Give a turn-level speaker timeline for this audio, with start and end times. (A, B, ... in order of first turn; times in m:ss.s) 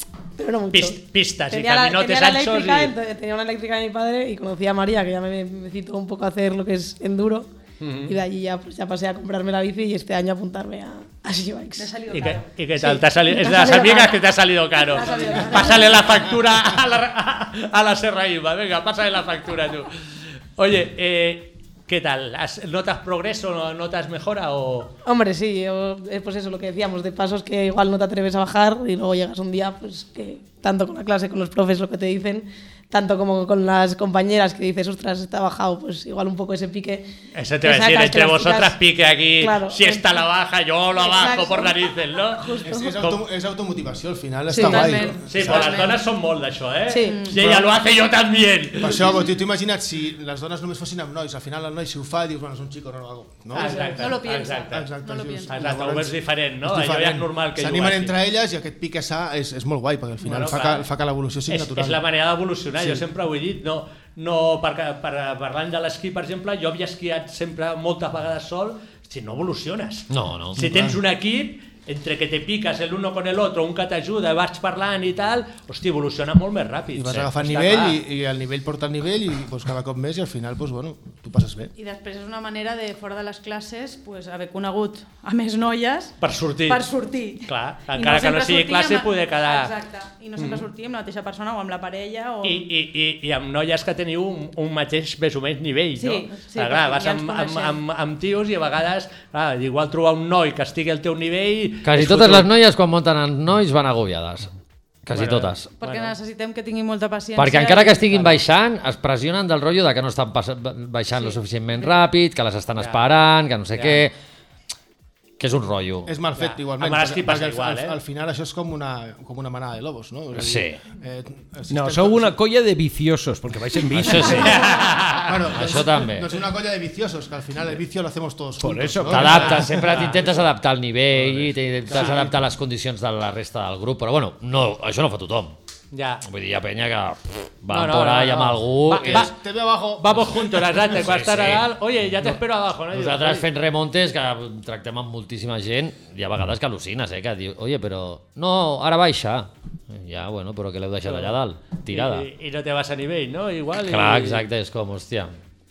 0:00.4-0:07.5 A
0:00.7-0:03.0 B
0:07.8-0:08.2 B
0:08.0-0:12.0 A
0:11.8-0:12.5 C
0:12.1-0:25.0 B
0:12.8-0:16.1 A
0:15.1-0:15.4 C
0:25.0-0:37.1 A
0:37.3-0:43.2 B
0:37.6-0:38.8 A
0:39.4-0:40.3 A
0:41.0-0:43.0 A
0:42.6-0:46.0 D
0:44.5-0:45.2 A
0:44.6-0:45.9 C
0:45.2-0:49.2 B
0:46.9-0:47.3 A
0:47.1-0:47.4 C
0:47.4-0:47.7 D
0:48.8-0:54.2 D
0:53.5-0:54.9 B
0:53.6-0:55.7 C
0:54.7-1:02.0 D
0:55.5-0:58.1 B
1:00.2-1:00.9 B
1:01.5-1:18.0 B
1:02.8-1:03.0 D
1:10.1-1:10.6 E
1:10.6-1:11.0 D
1:16.9-1:21.7 D
1:21.8-1:32.6 C
1:26.2-1:26.8 B
1:27.4-1:29.7 B
1:30.4-1:30.6 B
1:32.4-1:42.5 B
1:36.0-1:37.8 C
1:41.8-1:44.5 E
1:45.1-1:45.7 E
1:45.1-1:46.1 B
1:45.8-1:48.3 C
1:47.4-1:54.1 E
1:53.7-1:54.0 B
1:55.4-1:56.1 E
1:56.1-2:02.4 D
1:56.4-1:58.0 B
2:00.4-2:00.8 E
2:01.7-2:04.7 F
2:04.0-2:04.6 E
2:04.4-2:05.3 B
2:05.2-2:10.3 D
2:05.5-2:06.3 E
2:08.6-2:09.6 F
2:09.1-2:15.6 E
2:09.2-2:10.2 B
2:11.9-2:12.3 D
2:15.9-2:16.2 B
2:16.2-2:19.3 E
2:17.7-2:19.3 B
2:18.9-2:20.9 D
2:20.0-2:23.4 B
2:20.9-2:21.7 E
2:22.9-2:32.3 E
2:31.0-2:31.3 B
2:31.9-2:34.4 B
2:33.9-2:35.3 E